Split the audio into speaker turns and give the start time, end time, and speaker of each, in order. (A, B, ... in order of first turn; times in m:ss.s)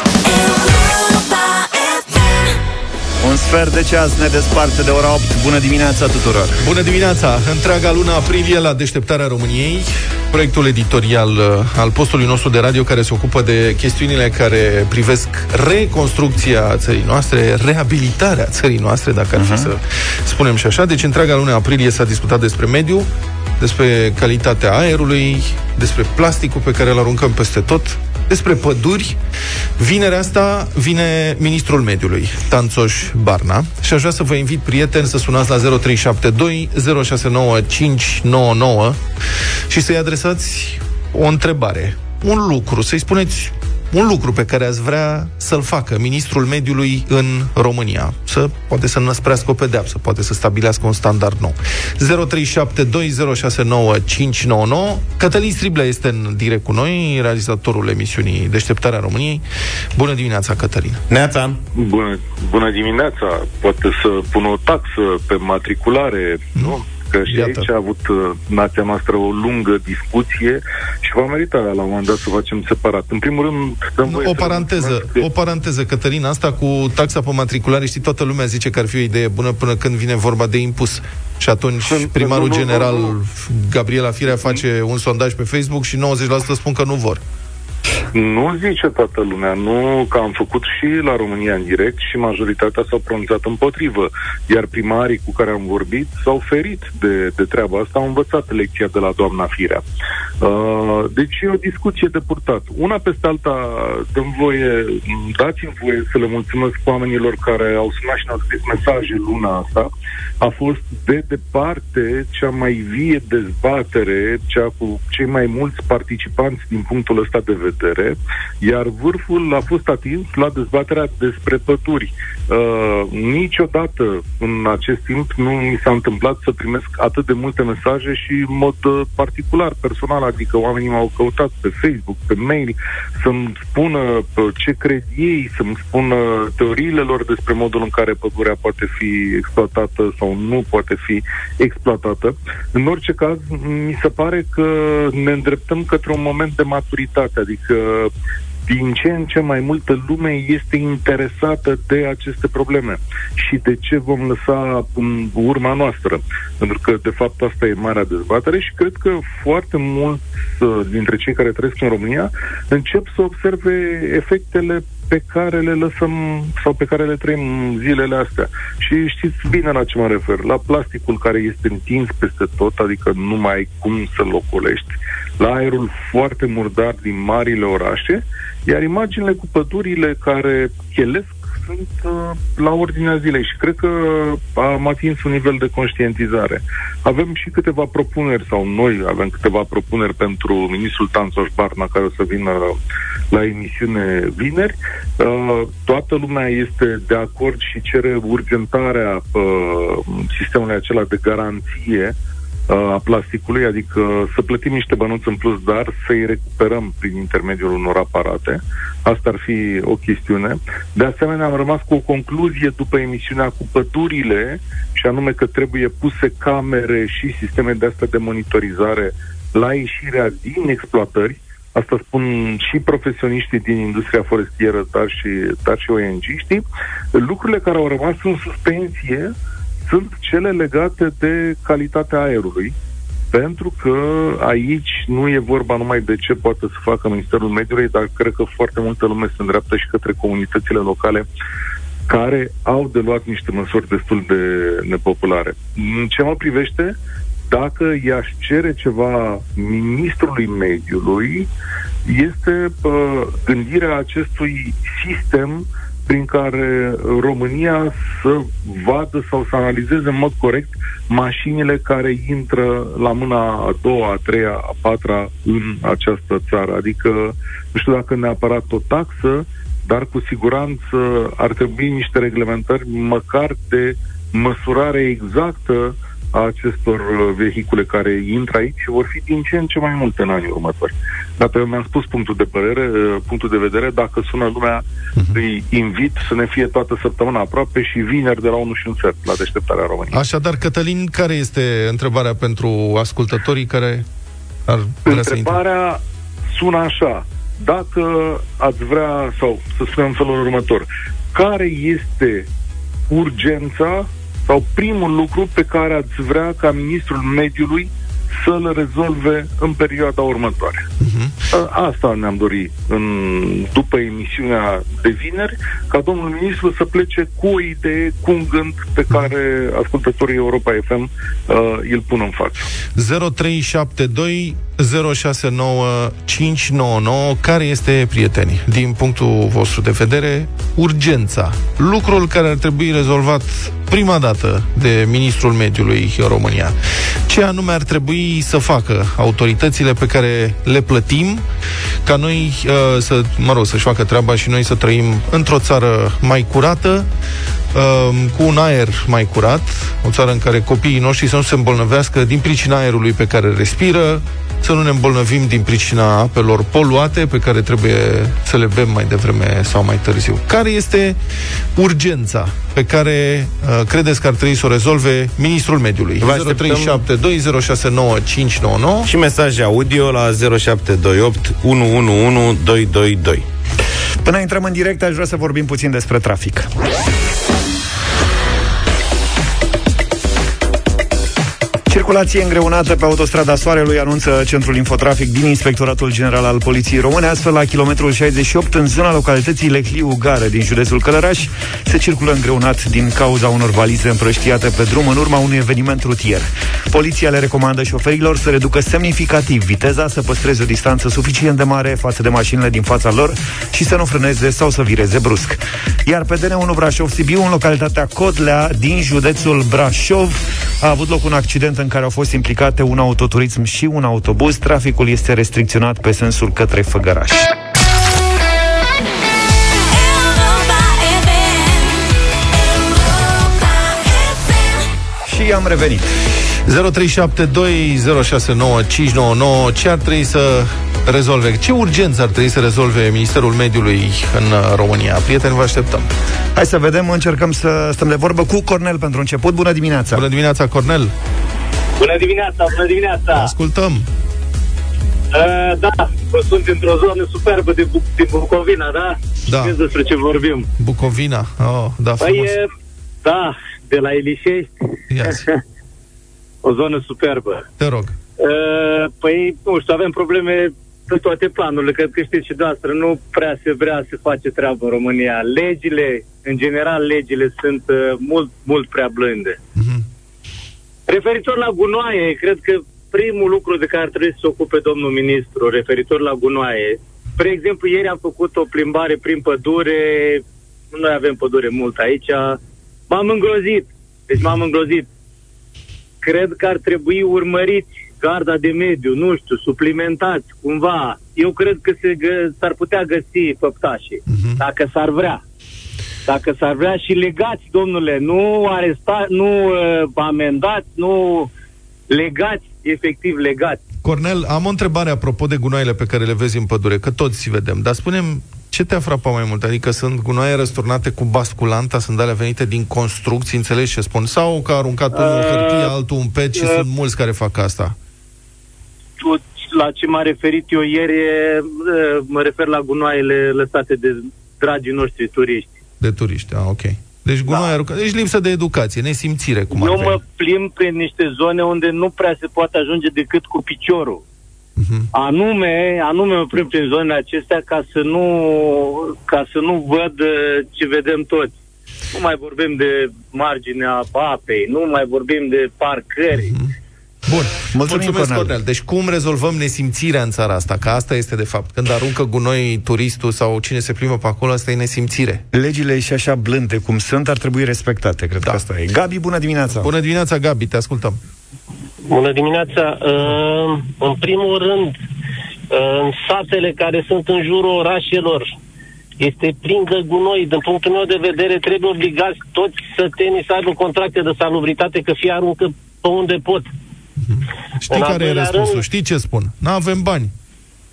0:03.2-0:06.6 A
0:06.6-0:23.1 B
0:19.4-0:19.7 A
0:23.6-0:29.2 B
0:29.8-0:39.0 B
0:39.7-0:59.4 B
1:00.0-1:01.0 B
1:01.1-1:01.6 C
1:01.8-1:15.3 D
1:07.3-1:07.7 B
1:14.1-1:27.2 B
1:21.9-1:23.1 D
1:28.1-1:39.8 D
1:40.4-2:28.1 D
2:28.7-3:12.8 D
3:13.3-3:22.1 D
3:22.7-3:46.6 D
3:47.1-3:49.3 D
3:49.9-3:52.7 D
3:53.3-4:01.2 D
4:02.1-4:07.0 D
4:07.5-4:11.5 D
4:12.0-4:50.2 D
4:50.1-4:54.0 B
4:54.7-4:55.6 B
4:55.1-4:56.0 D
4:56.5-5:02.5 D
5:03.1-5:10.9 D
5:11.0-5:11.4 B
5:11.5-5:22.7 D
5:23.0-5:36.8 B
5:37.3-5:41.4 B
5:42.0-5:47.1 B
5:47.7-6:01.2 B
6:01.8-6:09.1 B
6:06.2-6:07.0 C
6:09.1-6:13.4 C
6:14.2-6:16.7 A
6:21.9-6:57.5 A
7:05.2-7:06.1 A
7:06.6-7:16.1 B
7:16.5-7:20.2 A
7:20.1-7:21.1 B
7:22.0-7:23.5 E
7:23.3-7:24.1 B
7:25.3-7:30.7 E
7:29.5-7:29.8 B
7:30.8-7:32.5 B
7:32.2-7:32.7 E
7:33.2-7:34.7 E
7:35.1-7:35.5 B
7:36.6-7:37.6 E
7:37.8-7:38.2 B
7:38.4-7:49.6 E
7:49.8-7:50.0 B
7:51.1-8:05.1 E
8:06.2-8:15.4 E
8:14.3-8:14.6 B
8:16.2-8:21.5 E
8:22.1-8:23.8 E
8:24.0-8:38.0 B
8:35.1-8:35.9 E
8:36.5-8:36.8 E
8:39.2-8:45.7 E
8:46.0-8:50.2 B
8:49.7-8:54.2 E
8:54.8-8:55.1 B
8:55.1-9:01.5 E
9:02.1-9:06.5 E
9:06.4-9:06.7 B
9:07.3-9:15.4 B
9:07.7-9:08.5 A
9:15.5-9:19.9 A
9:19.8-9:21.2 B
9:22.0-9:25.0 F
9:25.7-9:28.5 F
9:29.2-9:36.7 F
9:37.2-9:40.3 B
9:37.9-9:38.8 F